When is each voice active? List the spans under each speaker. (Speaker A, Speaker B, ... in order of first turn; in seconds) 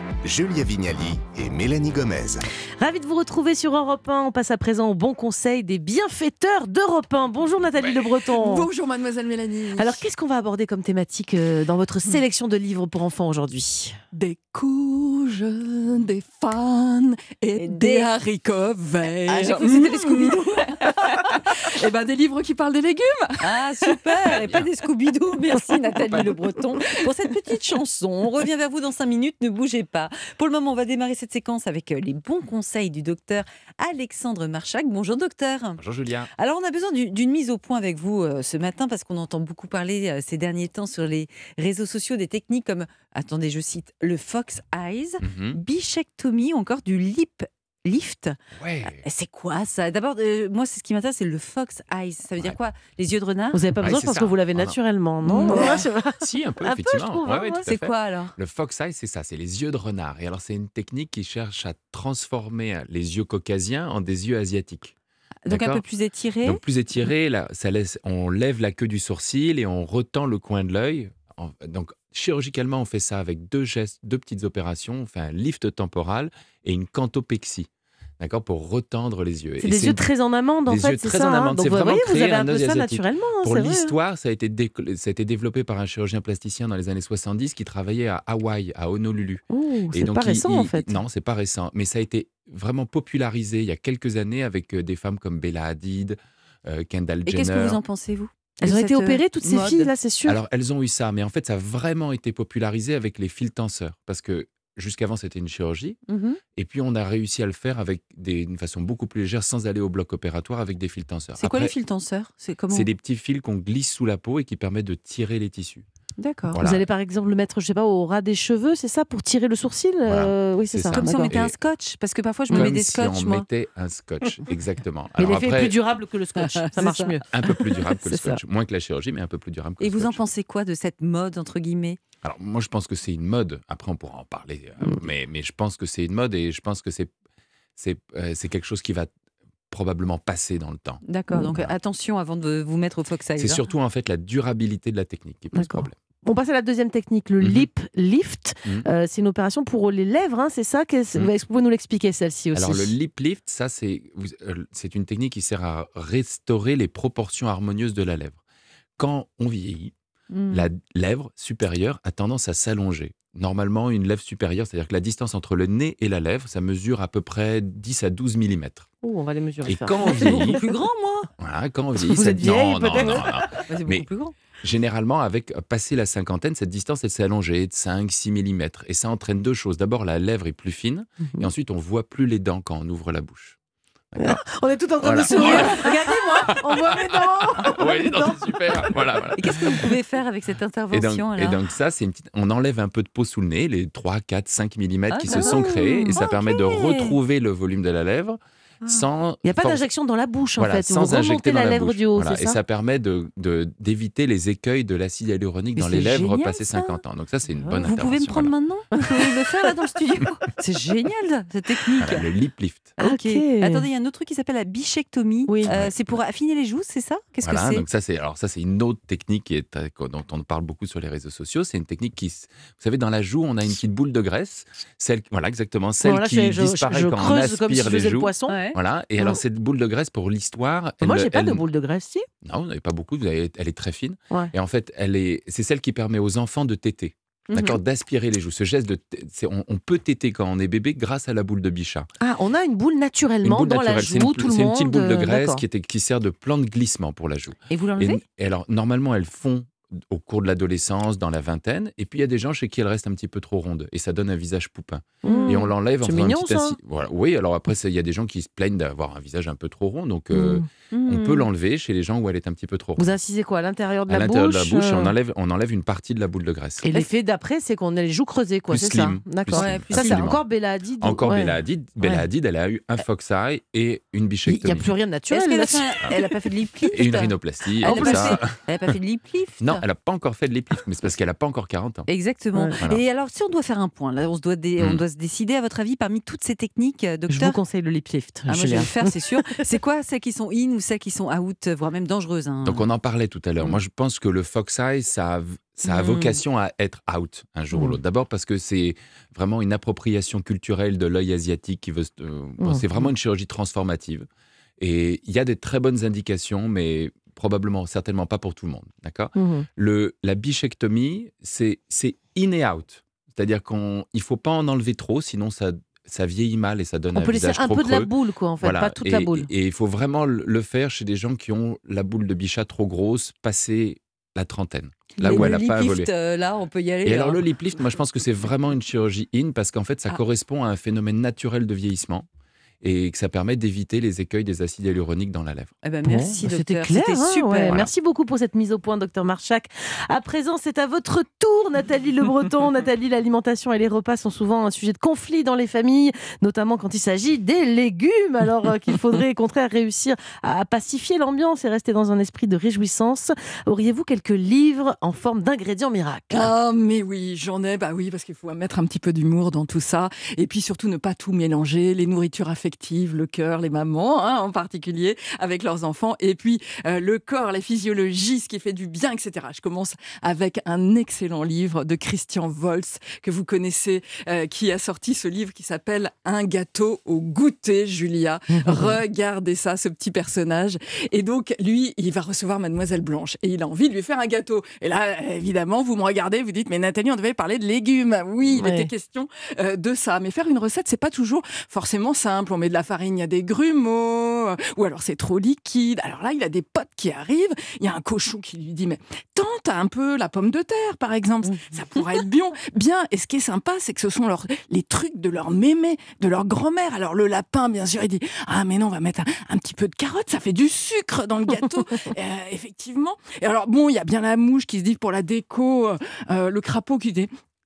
Speaker A: 0.3-2.4
Speaker B: 2.8-8.7, 9.8-14.0, 53.5-57.7, 79.6-84.0, 89.5-91.0, 98.6-100.4, 116.6-121.3, 125.2-127.2, 145.5-152.9, 169.0-170.8, 172.0-173.6, 184.2-189.3, 195.3-196.2, 199.4-202.6, 209.0-209.8, 213.0-213.9, 215.5-215.7, 226.0-228.6, 231.0-232.2, 242.2-245.6, 255.2-256.8, 260.3-260.6, 263.0-265.1, 266.8-272.3, 274.5-276.4, 277.8-278.4, 287.3-289.7, 302.6-303.1, 309.4-309.7, 317.1-319.5, 325.2-325.5, 336.1-356.5, 378.5-379.0, 388.4-388.9
Speaker C: 8.2-10.1, 14.1-24.3, 356.3-417.3
Speaker D: 17.6-18.1, 19.3-20.6, 23.4-35.8, 36.4-48.4, 48.9-54.2, 55.2-55.8, 57.6-58.4, 65.5-66.6, 97.3-99.9, 106.1-106.4, 111.4-112.9, 116.2-116.6, 120.9-123.5, 126.4-128.4, 129.8-132.0, 141.0-143.6, 160.3-160.7, 170.0-171.3, 173.7-174.3, 185.3-186.0, 189.4-191.6, 195.1-197.2, 205.8-207.0, 207.8-212.3, 213.0-217.8, 228.5-228.8, 237.5-237.8, 247.7-248.2, 255.2-255.7, 260.9-261.5, 269.5-270.2, 275.3-279.9, 282.1-287.6, 288.5-292.9, 295.8-296.4, 325.2-327.4, 335.8-337.9
Speaker E: 24.4-24.7, 35.8-36.3, 45.2-45.6, 48.6-49.0, 53.8-54.8, 55.5-64.9, 65.5-65.8, 66.4-77.7, 78.2-80.0, 80.7-97.8, 100.2-106.0, 106.6-111.7, 112.7-115.8, 116.5-116.8, 120.1-121.5, 122.5-125.8, 127.3-130.2, 132.2-137.1, 137.8-139.1, 139.7-141.8, 143.4-145.9, 147.4-147.7, 152.5-158.4, 159.0-159.9, 160.5-168.9, 169.7-170.6, 171.4-174.1, 174.6-183.6, 184.1-184.4, 185.0-189.9, 190.9-199.9, 200.6-208.5, 212.0-213.0, 215.7-216.0, 217.4-231.6, 232.4-242.1, 243.4-263.1, 264.1-266.9, 268.7-270.4, 271.0-274.9, 276.9-278.9, 279.6-282.1, 292.6-304.3, 304.8-326.1, 327.1-332.3, 332.8-335.7